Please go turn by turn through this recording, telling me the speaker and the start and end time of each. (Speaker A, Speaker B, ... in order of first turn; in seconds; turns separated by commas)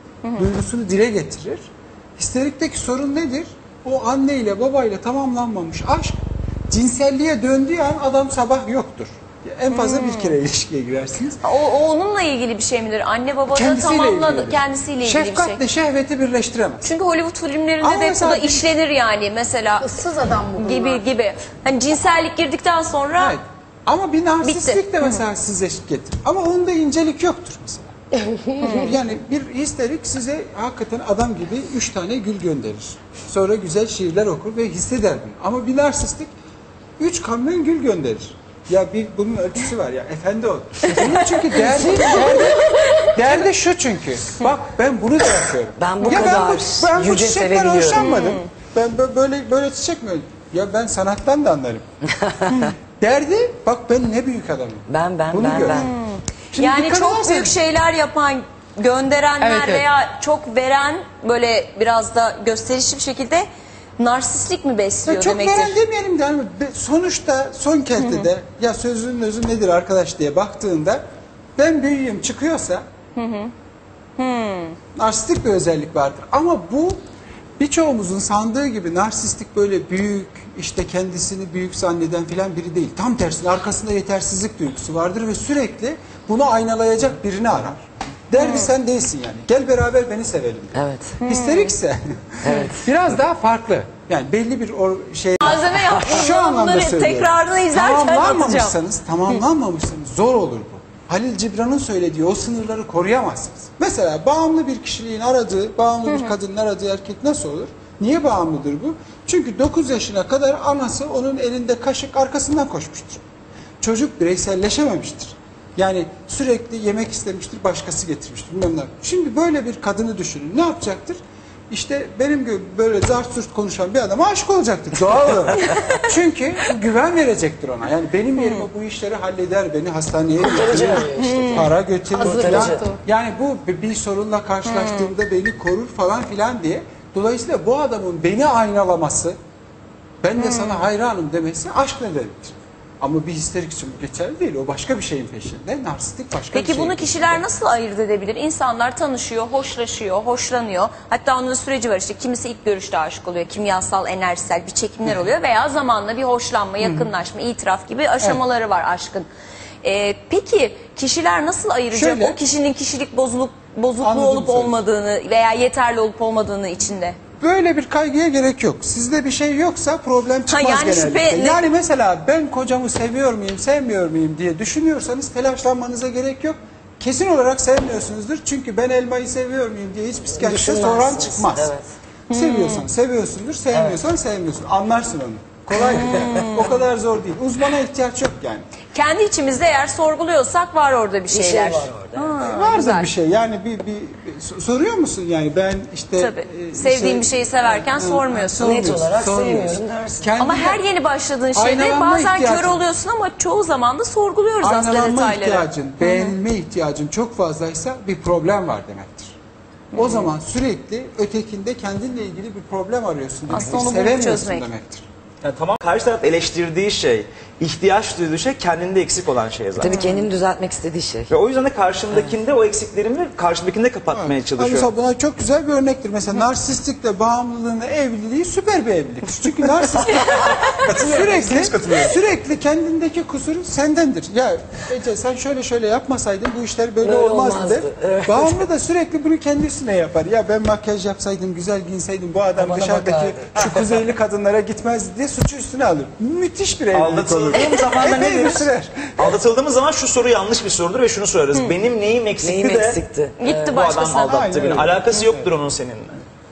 Speaker A: 0.3-11.4, Speaker B: 9.7-10.3, Speaker B: 11.4-15.6, Speaker A: 13.5-16.9, Speaker B: 16.8-20.0, Speaker A: 17.8-18.7, Speaker C: 19.8-21.0, Speaker B: 20.6-23.4, Speaker A: 23.2-27.9, Speaker B: 24.4-25.1, Speaker C: 28.1-29.0, Speaker A: 28.6-36.3, Speaker B: 28.6-28.9, Speaker A: 37.0-51.9, Speaker B: 41.0-41.4, Speaker D: 41.6-42.4, Speaker D: 45.8-48.1, Speaker B: 46.0-46.4, Speaker B: 48.0-48.4, Speaker D: 52.0-52.7, Speaker A: 52.6-55.9, Speaker D: 54.9-55.9, Speaker B: 55.6-63.5, Speaker A: 56.5-57.5, Speaker A: 59.4-59.9, Speaker B: 64.0-65.8, Speaker A: 65.0-71.0, Speaker B: 68.0-68.3, Speaker A: 71.6-72.8, Speaker B: 73.2-73.5, Speaker B: 74.2-74.8, Speaker A: 75.0-77.0, Speaker A: 77.6-113.2, Speaker B: 88.4-88.7, Speaker D: 90.8-91.2, Speaker B: 91.2-91.7, Speaker D: 92.4-92.9, Speaker B: 95.4-98.8, Speaker A: 113.8-139.4, Speaker D: 130.4-132.9, Speaker B: 131.1-131.7, Speaker C: 132.2-133.0, Speaker A: 140.2-147.4, Speaker B: 140.4-140.8, Speaker B: 146.5-159.3, Speaker A: 156.8-157.1, Speaker B: 159.8-167.2, Speaker A: 161.9-162.4, Speaker A: 164.0-164.8, Speaker A: 167.4-181.8, Speaker B: 170.5-171.6, Speaker D: 180.3-181.9, Speaker A: 182.3-188.7, Speaker B: 182.3-182.8, Speaker D: 183.7-184.0, Speaker B: 185.8-186.8, Speaker B: 188.9-193.1, Speaker D: 191.3-192.4, Speaker A: 192.4-200.8, Speaker B: 196.2-198.8, Speaker D: 198.6-200.3, Speaker B: 200.4-206.4, Speaker A: 201.6-202.8, Speaker A: 204.6-209.4, Speaker A: 209.9-215.1, Speaker B: 209.9-210.3, Speaker B: 213.5-214.7, Speaker E: 215.4-220.3, Speaker D: 219.8-221.3, Speaker E: 221.3-224.9, Speaker A: 224.1-249.3, Speaker E: 230.5-232.2, Speaker D: 237.0-238.7, Speaker D: 242.6-243.8, Speaker E: 246.9-253.0, Speaker D: 252.4-253.9, Speaker B: 253.4-254.5, Speaker E: 253.7-256.2, Speaker A: 254.2-255.5